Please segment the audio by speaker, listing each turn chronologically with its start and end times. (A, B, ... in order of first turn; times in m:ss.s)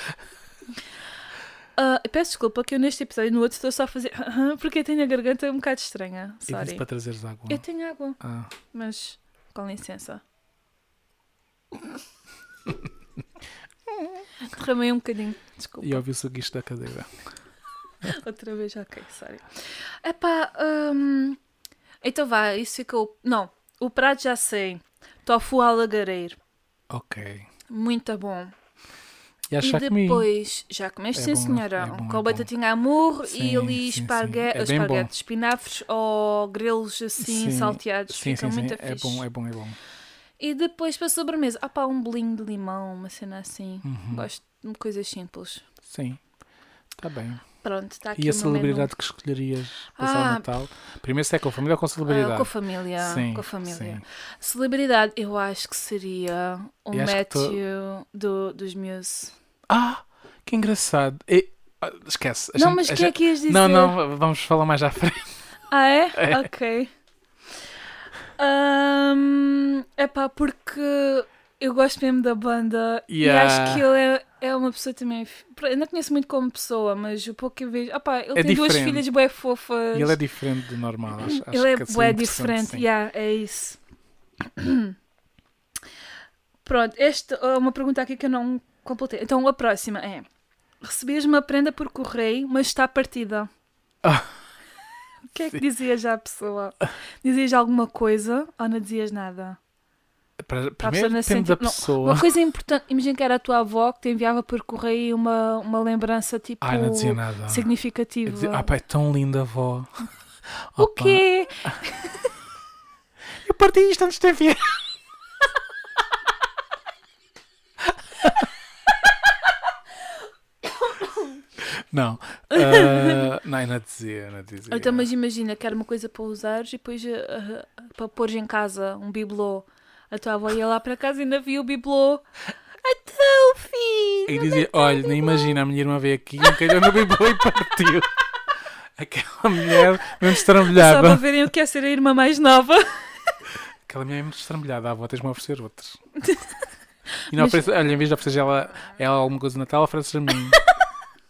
0:01.8-0:06.8 A
0:06.5-0:07.6 B
0:07.5-0:08.2 A
0:08.2-0:08.5 B
0:08.7-0:10.2 A
0:14.4-0:16.0 A
0:15.8-0:17.1 B
0:18.0-0:21.4 A
0:22.0-0:26.4 A
0:26.9-0:27.5 B
0:27.7-0:28.5 A
0:29.5-0:30.3 B
0:29.6-0:39.2 A
0:31.1-0:32.5 B
0:33.2-0:35.1 B
0:37.2-0:39.8 B
0:40.4-0:45.6 A
0:43.8-0:44.3 B
0:45.8-0:46.2 B
0:47.0-0:47.4 B
0:47.6-0:48.9 A
0:48.1-0:54.0 B
0:50.0-0:50.5 A
0:52.1-0:59.3 A
0:56.9-0:57.6 B
0:59.7-1:05.3 B
1:02.6-1:03.9 A
1:05.7-1:06.9 A
1:06.1-1:06.4 B
1:08.4-1:20.2 A
1:13.1-1:13.8 B
1:18.4-1:19.0 B
1:19.9-1:22.9 B
1:21.2-1:23.8 A
1:24.4-1:24.9 A
1:26.6-1:30.3 A
1:30.8-1:33.5 A
1:34.0-1:34.3 B
1:35.3-1:39.6 A
1:40.4-1:42.3 B
1:40.8-1:48.7 A
1:46.6-1:47.7 B
1:48.2-1:50.1 B
1:50.7-1:51.8 B
1:50.8-1:52.2 A
1:53.4-1:54.8 B
2:00.6-2:01.4 A
2:01.7-2:05.1 B
2:02.5-2:03.3 A
2:04.7-2:12.2 A
2:12.8-2:15.6 A
2:14.3-2:18.1 B
2:16.4-2:16.8 A
2:19.0-2:21.2 B
2:19.8-2:23.1 A
2:23.9-2:26.0 B
2:26.2-2:26.5 A
2:27.3-2:30.6 B
2:27.3-2:27.7 A
2:30.3-2:30.7 A